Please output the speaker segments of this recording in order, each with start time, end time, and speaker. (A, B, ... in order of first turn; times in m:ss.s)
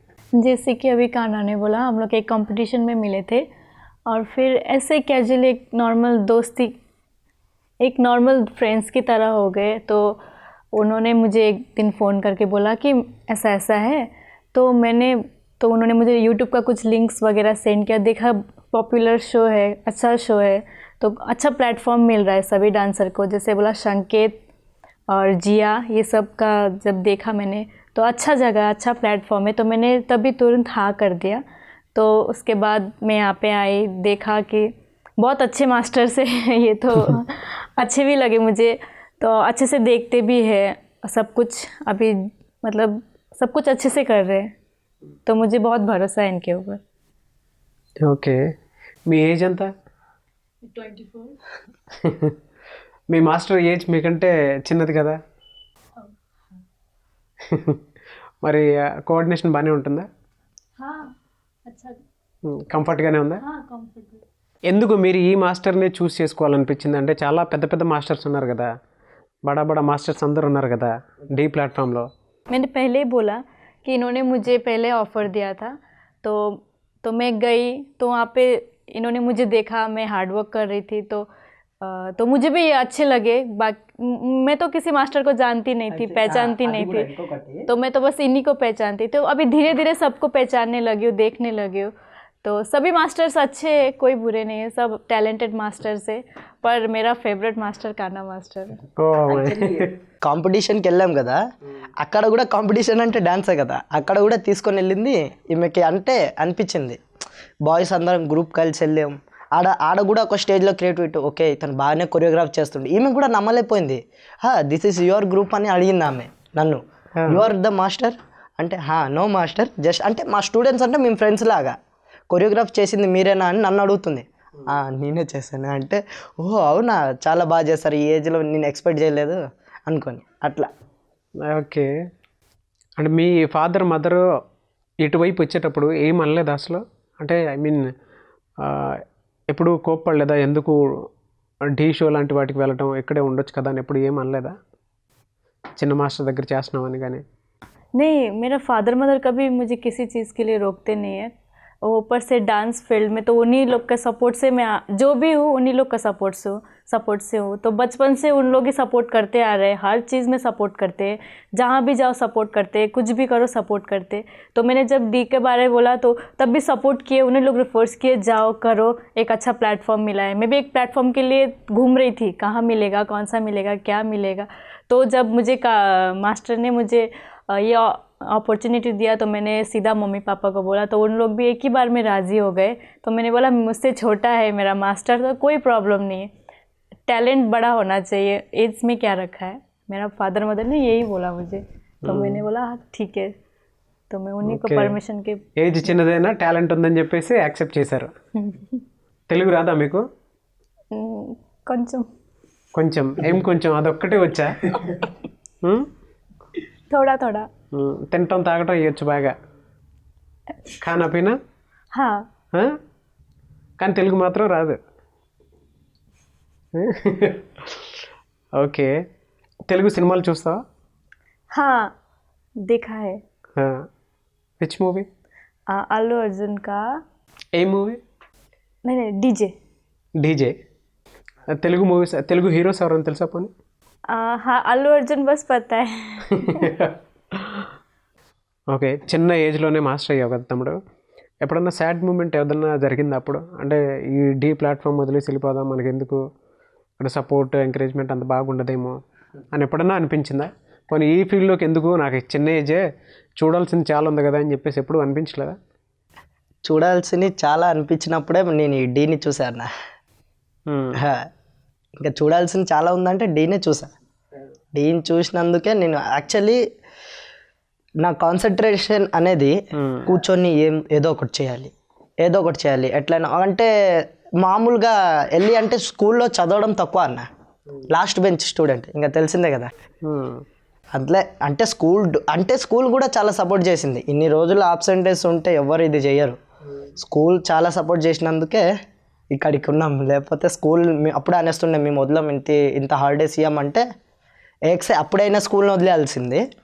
0:00.4-0:03.4 A
0:04.1-0:06.7 A
0:07.8-0:10.2 A
0:10.7-0:24.4 A
0:25.1-0:31.4 A
0:31.9-0:44.5 A
0:45.2-0:46.8 A
0:48.0-0:48.4 B
0:49.1-0:49.7 B
0:50.7-0:51.4 A
0:52.0-0:52.3 B
0:53.1-0:55.2 B
0:57.4-0:57.8 B
0:58.4-1:00.1 B
1:00.8-1:01.1 A
1:01.6-1:02.0 A
1:02.5-1:03.4 B
1:03.4-1:04.2 A
1:04.7-1:08.7 B
1:09.4-1:12.1 B
1:12.5-1:21.3 A
1:21.8-1:27.1 A
1:25.9-1:27.7 C
1:27.7-1:31.9 A
1:32.4-1:38.8 A
1:39.0-1:40.0 B
1:40.2-1:41.4 C
1:42.0-1:47.0 C
1:47.6-2:01.7 C
2:02.3-2:10.7 C
2:11.5-2:11.9 B
2:13.0-2:14.2 B
2:15.0-2:17.8 B
2:18.6-2:21.0 B
2:21.8-2:24.6 B
2:25.8-2:27.2 B
2:28.0-2:31.3 A
2:31.8-3:06.3 A
3:07.1-3:13.3 A
3:12.0-3:12.4 B
3:14.1-3:15.4 A
3:14.4-3:15.0 B
3:15.6-3:18.1 B
3:18.4-3:18.8 A
3:19.3-3:20.0 B
3:20.9-3:22.1 A
3:22.7-3:25.0 B
3:26.9-3:27.5 A
3:27.7-3:29.3 B
3:30.8-3:31.4 B
3:31.9-3:32.2 A
3:33.8-3:34.8 B
3:36.8-3:37.8 B
3:38.6-3:38.9 B
3:39.7-3:40.6 B
3:41.5-3:41.9 A
3:42.6-3:43.2 A
3:44.6-3:45.1 B
3:45.7-3:46.9 A
3:47.6-3:48.0 B
3:48.8-3:49.5 A
3:50.2-3:50.5 B
3:51.5-3:53.5 B
3:54.1-3:56.7 A
3:56.4-3:57.7 B
3:58.7-4:00.8 B
4:01.4-4:06.2 B
4:07.0-4:08.9 B
4:09.5-4:12.8 B
4:13.4-4:15.6 B
4:16.6-4:19.7 C
4:20.7-4:21.0 B
4:21.0-4:21.2 C
4:22.0-4:23.9 C
4:24.7-4:26.6 C
4:28.0-4:29.5 C
4:29.8-4:30.1 B
4:30.0-4:33.7 C
4:34.4-4:37.2 C
4:37.9-4:39.7 C
4:40.0-4:40.4 B
4:40.9-4:46.4 C
4:47.0-4:48.6 C
4:49.3-4:53.8 C
4:54.7-4:56.4 C